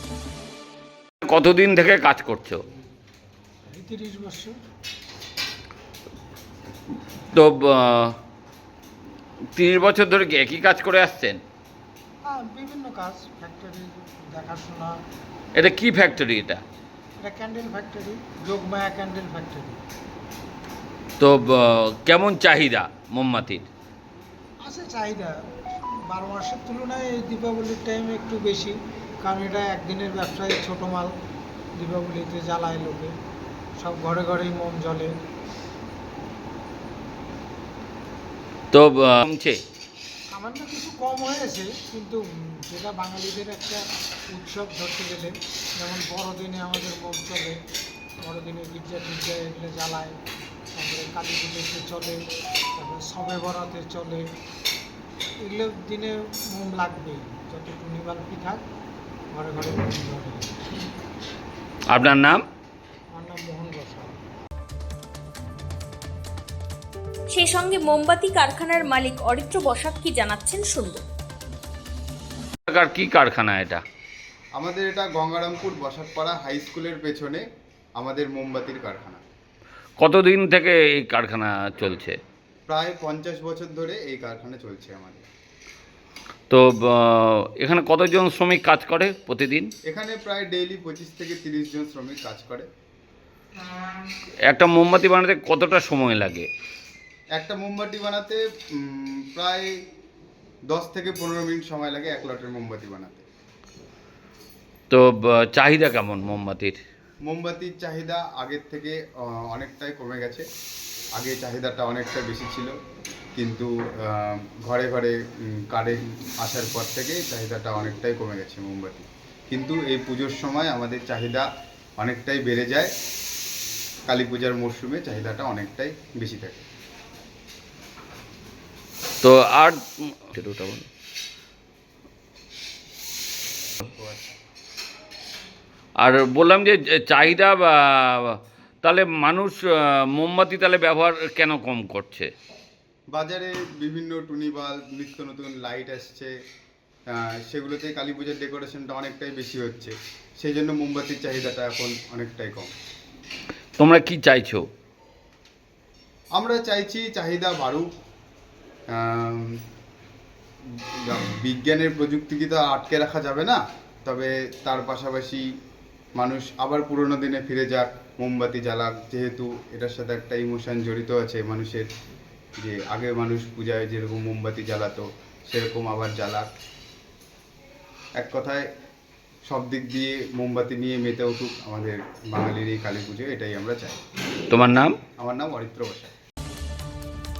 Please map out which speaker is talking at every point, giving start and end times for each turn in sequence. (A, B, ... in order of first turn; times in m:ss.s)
0:01.2-0:02.6 A
0:03.7-0:04.5 B
0:07.3-0:08.1 A
0:09.5-0:11.4 A
0:12.3-0:14.9 B
0:15.5-0:16.6 A
0:17.2-0:19.8 B
0:21.2-0:23.7 A
0:24.6-0:31.1 B
0:31.8-0:33.1 B
0:33.8-0:35.1 B
0:38.7-0:39.6 A
0:40.3-0:43.8 B
0:44.3-0:47.6 B
0:48.2-0:50.2 B
0:50.7-0:52.2 B
0:52.8-0:54.2 B
0:55.4-0:58.6 B
0:59.3-1:00.5 B
1:01.9-1:02.4 A
1:03.1-1:04.1 B
1:07.3-1:11.0 C
1:12.7-1:13.8 A
1:14.6-1:17.4 D
1:18.0-1:19.2 D
1:20.0-1:22.2 A
1:22.7-1:25.2 D
1:26.5-1:29.7 A
1:29.9-1:32.7 D
1:34.5-1:36.5 A
1:37.4-1:39.7 D
1:40.7-1:43.2 D
1:44.9-1:46.8 A
1:47.2-1:50.4 D
1:51.2-1:52.7 D
1:53.4-1:55.2 D
1:55.7-2:01.4 D
2:02.0-2:02.9 D
2:04.1-2:06.6 D
2:09.2-2:10.8 A
2:13.9-2:14.3 D
2:16.0-2:22.3 A
2:23.1-2:26.3 D
2:27.1-2:32.7 D
2:33.8-2:34.7 A
2:36.3-2:37.9 D
2:38.9-2:39.5 D
2:41.1-2:45.4 D
2:46.2-2:51.9 D
2:52.6-2:56.5 D
2:58.2-2:58.6 D
2:59.5-3:04.0 D
3:04.5-3:04.9 A
3:05.2-3:06.1 D